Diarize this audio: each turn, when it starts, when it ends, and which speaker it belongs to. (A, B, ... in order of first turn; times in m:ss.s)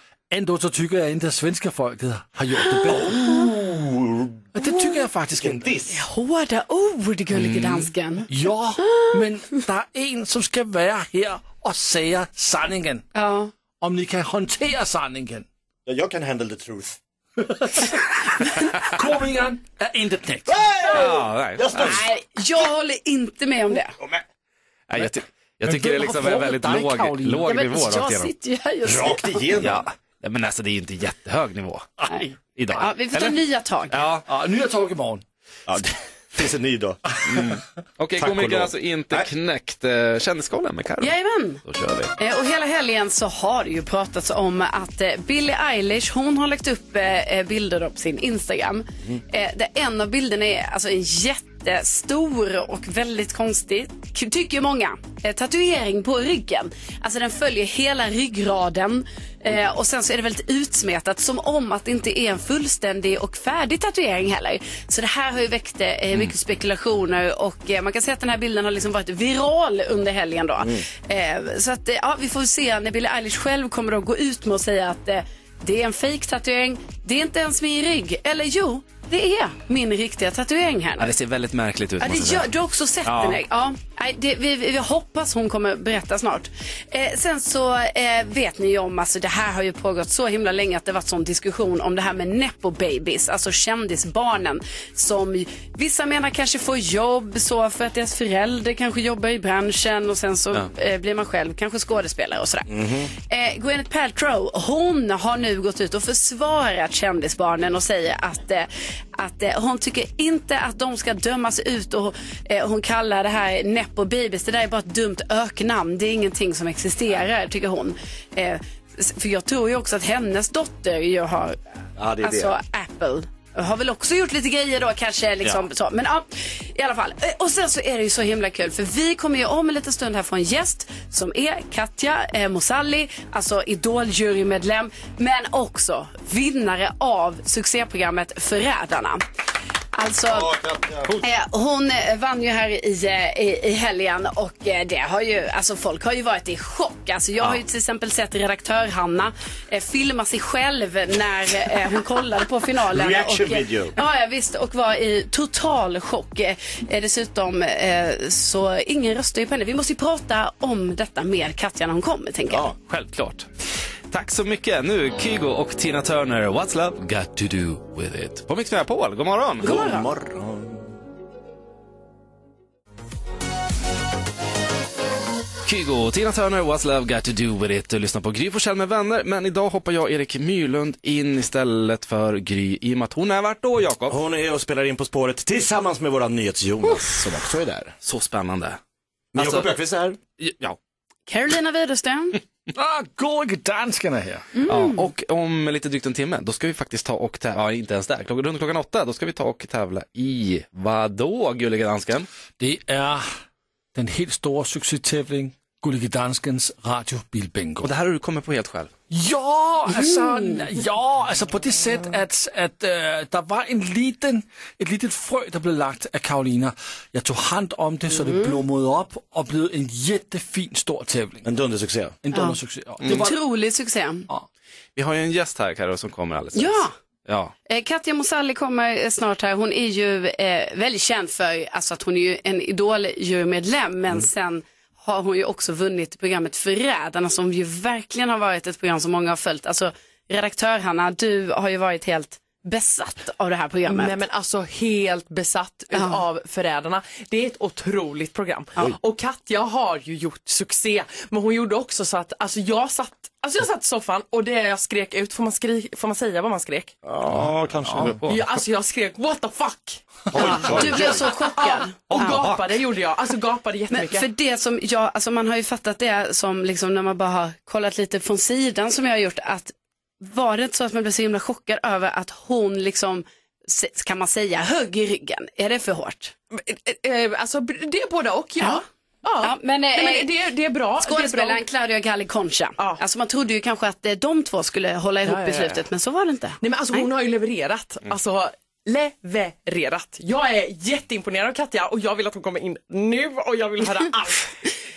0:00.3-0:03.6 A
0:03.0-0:04.5 B
0:04.5-0:05.7 A
0:05.3-0:06.0 B
0:05.9-0:08.3 C
0:07.3-0:07.9 D
0:08.3-0:13.1 A
0:08.8-0:09.2 C
0:13.2-0:13.5 C
0:13.8-0:15.5 A
0:15.9-0:17.0 B
0:17.4-0:17.9 A
0:18.8-0:20.6 A
0:20.5-0:22.1 B
0:20.8-0:22.0 D
0:21.7-0:24.0 C
0:24.9-0:28.3 D
0:25.6-0:27.5 A
0:27.4-0:29.6 C
0:28.8-0:29.8 B
0:29.6-0:31.9 D
0:32.1-0:34.1 C
0:32.6-0:34.2 D
0:34.3-0:35.2 A
0:35.7-0:37.5 B
0:37.3-0:42.1 D
0:38.2-0:39.3 B
0:41.0-0:41.6 C
0:42.2-1:21.2 C
1:21.0-1:22.5 D
1:22.0-2:01.6 C
1:23.0-1:23.4 D
1:42.7-1:43.1 B
2:02.0-2:02.6 B
2:02.2-2:19.2 C
2:20.0-2:20.5 C
2:20.2-2:21.2 B
2:21.2-2:42.7 C
2:32.9-2:34.0 B
2:42.5-2:42.8 B
2:42.9-2:43.5 D
2:44.1-2:49.8 D
2:49.6-2:50.9 B
2:49.6-2:50.1 C
2:55.6-3:04.2 D
3:04.1-3:08.0 B
3:08.0-3:08.8 D
3:09.3-3:10.2 B
3:09.4-3:09.7 D
3:10.4-3:10.8 D
3:11.3-3:12.4 C
3:12.7-3:14.5 A
3:14.6-3:15.1 C
3:14.6-3:22.3 D
3:22.6-3:23.4 A
3:23.9-3:27.9 A
3:27.8-3:28.9 D
3:29.1-3:41.5 A
3:30.0-3:30.5 C
3:38.2-3:38.6 C
3:41.4-3:42.2 B
3:42.2-3:43.4 A
3:42.3-3:44.3 C
3:45.0-3:47.5 D
3:46.6-3:46.9 C
3:47.7-4:04.2 C
4:03.9-4:16.9 E
4:05.9-4:06.2 C
4:17.0-4:18.3 B
4:18.0-4:18.4 D
4:18.2-4:24.3 E
4:20.3-4:21.3 B
4:20.3-4:22.5 C
4:22.1-4:22.6 D
4:23.9-4:36.4 C
4:36.5-4:41.6 E
4:39.4-4:40.3 C
4:41.0-4:47.1 C
4:45.2-4:45.9 E
4:46.6-4:54.5 E